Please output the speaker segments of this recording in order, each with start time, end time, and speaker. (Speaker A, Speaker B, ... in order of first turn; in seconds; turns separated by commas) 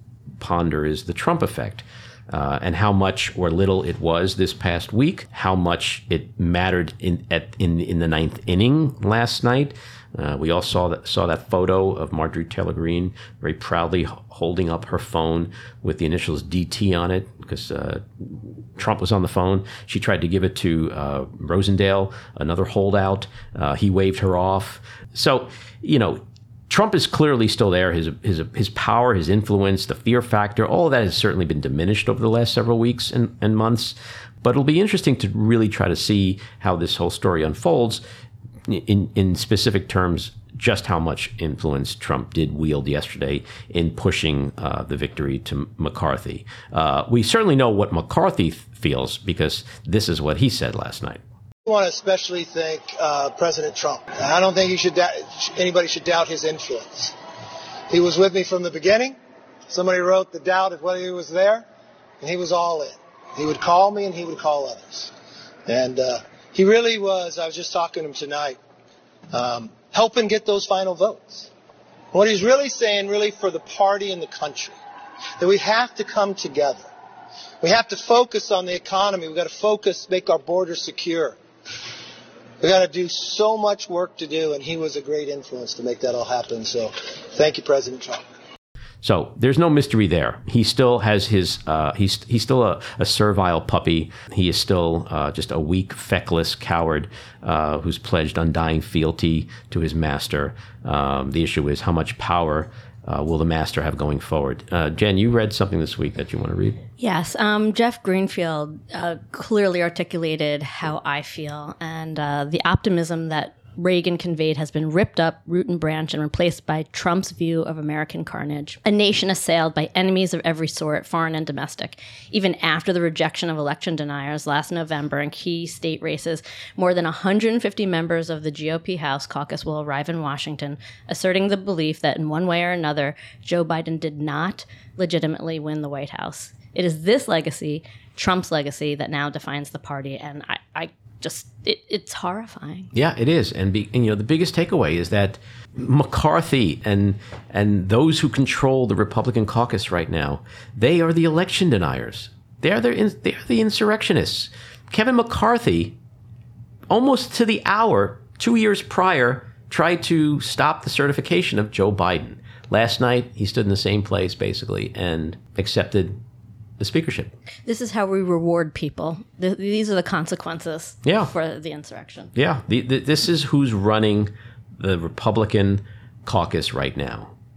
Speaker A: 0.4-38.0, Speaker A: 38.7-51.2, Speaker B: 51.7-57.2, Speaker B: 57.9-59.2, Speaker B: 59.7-61.7, Speaker B: 62.2-65.1, Speaker B: 65.7-68.6, Speaker B: 69.3-71.5, Speaker B: 72.1-74.8, Speaker B: 75.4-76.9, Speaker B: 77.6-81.4, Speaker B: 82.6-88.2, Speaker A: 89.0-106.8, Speaker C: 107.0-142.9, Speaker A: 142.9-156.0, Speaker A: 156.9-166.2, Speaker A: 166.8-167.3, Speaker C: 167.7-172.3, Speaker A: 171.0-171.3, Speaker A: 172.3-177.3